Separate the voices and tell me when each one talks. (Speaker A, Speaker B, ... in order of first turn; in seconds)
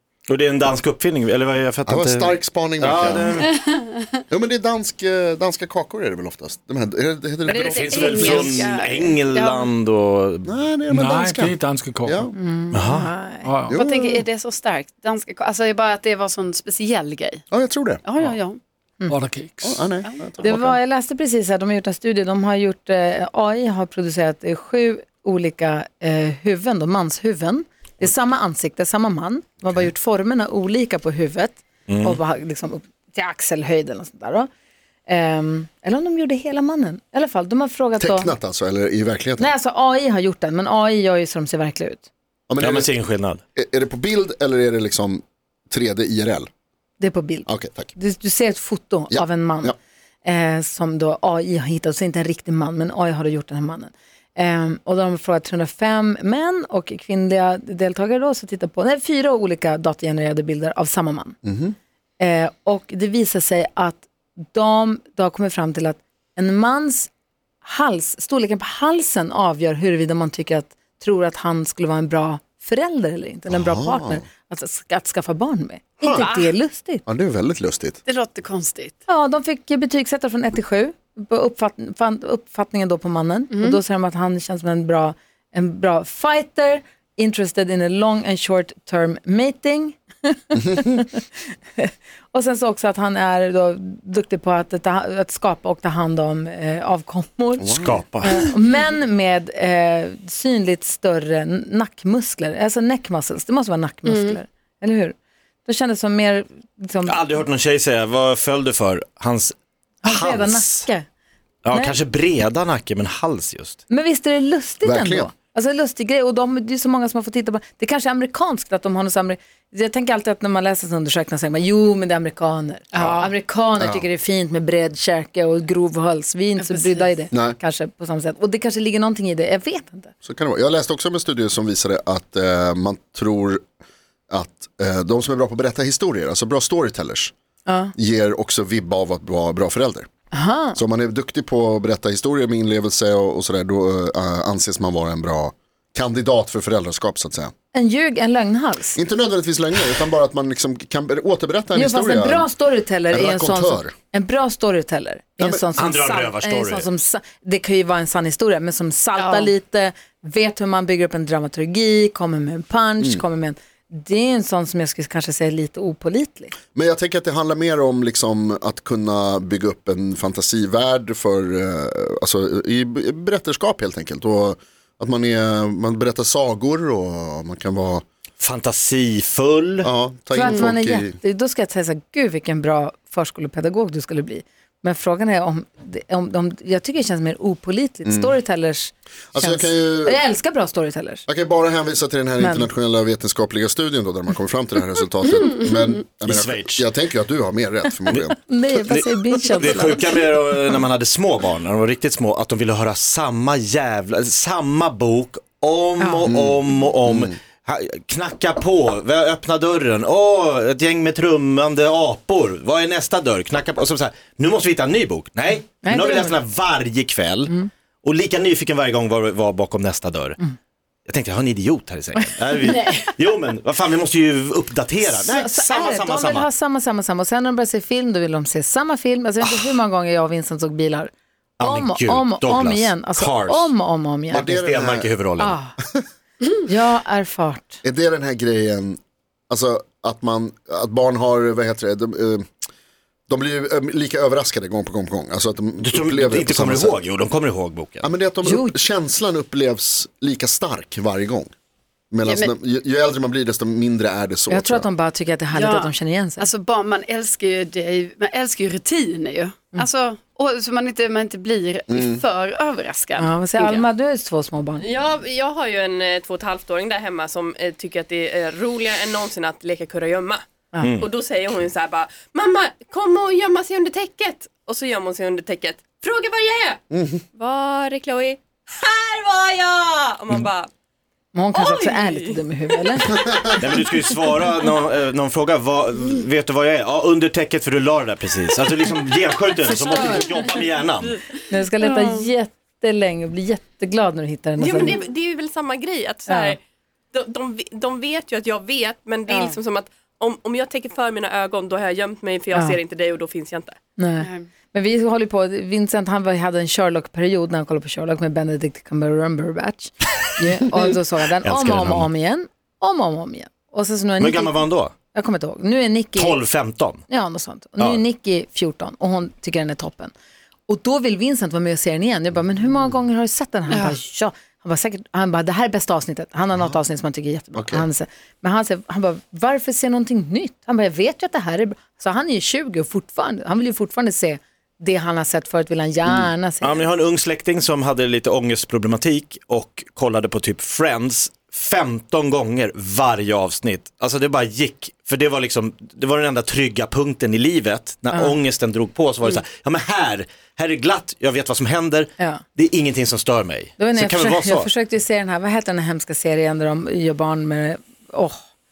Speaker A: 0.3-3.5, 7.5-10.5, 12.7-13.1, 31.9-32.2, 42.6-43.4, 97.8-98.5, 107.0-110.9, 111.7-113.8, 155.8-156.9, 178.4-179.9, 196.2-196.9, 198.8-220.4, 221.1-226.5, 231.6-233.7, 234.3-235.6, 245.8-248.1, 283.6-291.2, 311.4-312.1, 314.2-314.9, 316.2-317.0, 336.6-354.7
Speaker B: 1.9-3.5, 4.3-8.6, 10.4-12.3, 13.7-14.3, 17.5-18.0, 19.6-20.7, 38.0-39.5, 42.5-42.9, 43.6-46.5, 47.5-47.9, 49.1-49.8, 61.5-61.8, 73.5-74.3, 76.0-76.3, 77.1-78.0, 90.6-91.0, 97.6-98.3, 114.8-115.3, 123.8-124.0, 130.2-133.6, 134.3-137.3, 137.9-140.1, 140.8-147.5, 149.0-152.5, 153.1-153.9, 155.4-155.7, 166.7-178.0, 179.8-181.2, 188.1-188.4, 189.3-190.2, 191.3-198.4, 206.3-207.4, 234.3-235.1, 237.8-239.0, 239.5-242.5, 243.3-247.0, 248.0-251.5, 252.1-254.9, 261.9-262.2, 276.9-277.2, 326.5-326.8, 327.6-327.9
Speaker C: 3.2-4.2, 7.5-9.7, 13.7-17.5, 18.0-18.6, 76.1-76.6, 78.1-79.0, 83.5-83.8, 104.1-104.4, 122.9-123.3, 126.6-127.1, 159.2-159.5, 252.3-252.5, 255.5-263.9, 291.8-292.3, 294.8-295.1, 299.3-299.6, 304.2-304.5, 323.7-324.0
Speaker D: 10.9-12.3, 13.4-13.8, 19.1-19.9
Speaker E: 12.4-13.5, 20.4-34.5, 35.1-38.3, 39.4-42.1, 47.0-61.4, 62.2-67.1, 67.6-77.0, 79.1-107.2, 110.0-111.1, 113.9-130.1, 137.7-137.9, 140.3-140.8, 147.7-149.0, 151.7-166.5, 180.3-191.2, 192.4-192.7, 198.1-200.1, 206.0-206.3, 215.8-216.4, 225.0-234.5, 235.4-235.8, 236.5-237.8, 248.4-248.8, 254.5-256.5, 263.2-264.8, 281.3-283.1, 289.6-290.3, 291.5-295.0, 296.3-296.6, 304.0-316.4, 317.1-320.1, 320.7-336.9, 352.2-352.4, 353.8-358.4
Speaker F: 264.8-276.8, 277.4-280.7, 281.5-284.3, 289.9-291.2, 294.6-296.6, 297.1-303.8